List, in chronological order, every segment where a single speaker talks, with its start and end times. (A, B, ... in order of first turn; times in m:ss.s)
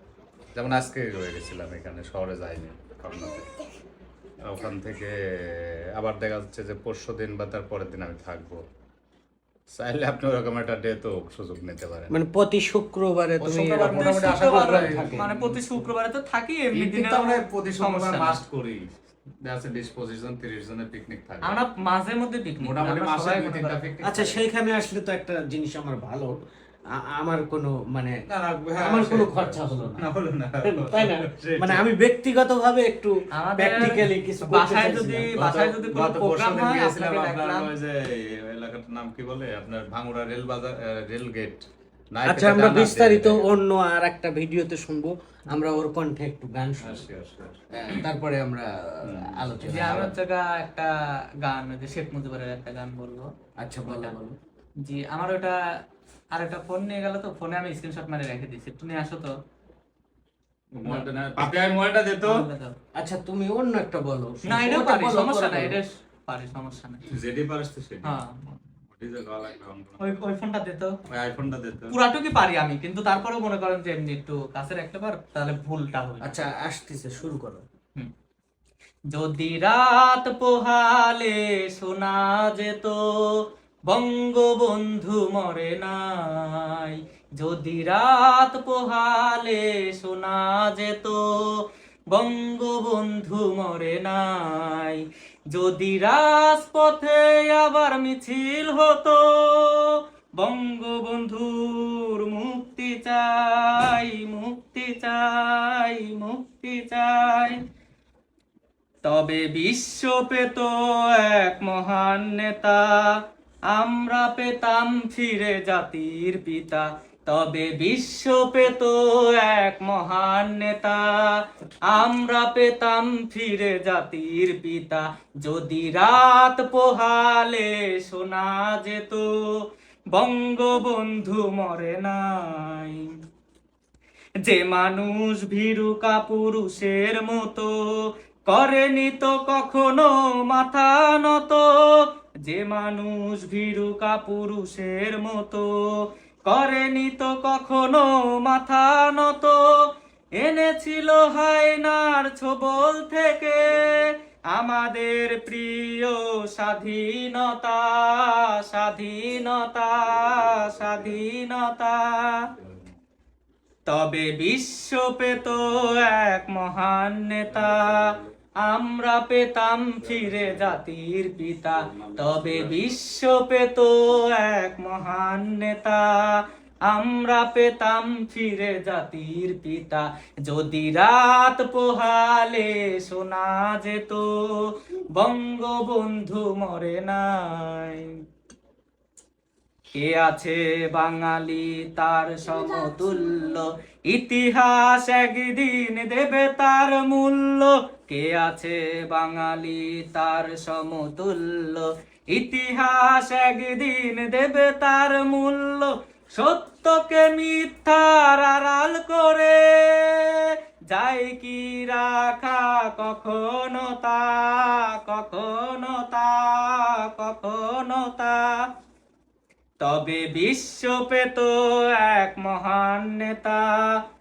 0:00.5-0:03.5 A
0:04.4-0:08.6 A
0:09.7-0:12.1 A
0:12.1-0:15.3 B
0:13.4-0:15.7 A
0:13.9-0:18.4 C
0:16.7-0:18.9 A
0:19.4-0:21.6 A
0:21.4-0:24.0 C
0:22.6-0:24.4 A
0:24.0-0:26.4 B
0:27.0-0:28.2 B
0:28.3-0:31.8 A
0:28.8-0:30.0 B
0:30.6-0:35.3 B
0:33.3-0:37.7 C
0:35.3-0:43.6 A
0:42.2-0:47.1 B
0:46.8-0:47.6 A
0:47.7-0:50.2 B
0:49.0-0:49.8 A
0:49.6-0:50.9 C
0:51.4-0:53.3 C
0:53.6-0:54.4 B
0:53.8-0:54.1 C
0:54.8-0:55.6 C
0:56.3-0:59.3 C
1:00.7-1:02.4 A
1:02.2-1:02.7 C
1:03.0-1:05.8 B
1:04.4-1:07.0 C
1:07.1-1:08.2 A
1:08.0-1:08.6 C
1:08.9-1:10.3 A
1:10.0-1:10.9 C
1:11.1-1:12.0 A
1:11.9-1:16.4 C
1:16.2-1:17.6 B
1:19.1-1:23.0 C
1:23.9-1:31.6 C
1:32.1-1:35.0 C
1:35.5-1:47.6 C
1:49.0-1:53.1 C
1:53.7-2:09.3 C
2:10.1-2:13.0 C
2:14.4-2:29.6 C
2:30.4-2:42.4 C
2:40.1-2:41.2 A
2:42.6-2:42.8 A
2:43.9-2:48.1 C
2:47.5-2:48.3 A
2:48.6-3:08.1 C
2:50.0-2:50.8 A
2:51.8-2:53.0 A
3:10.0-3:38.6 C
3:39.8-3:43.9 C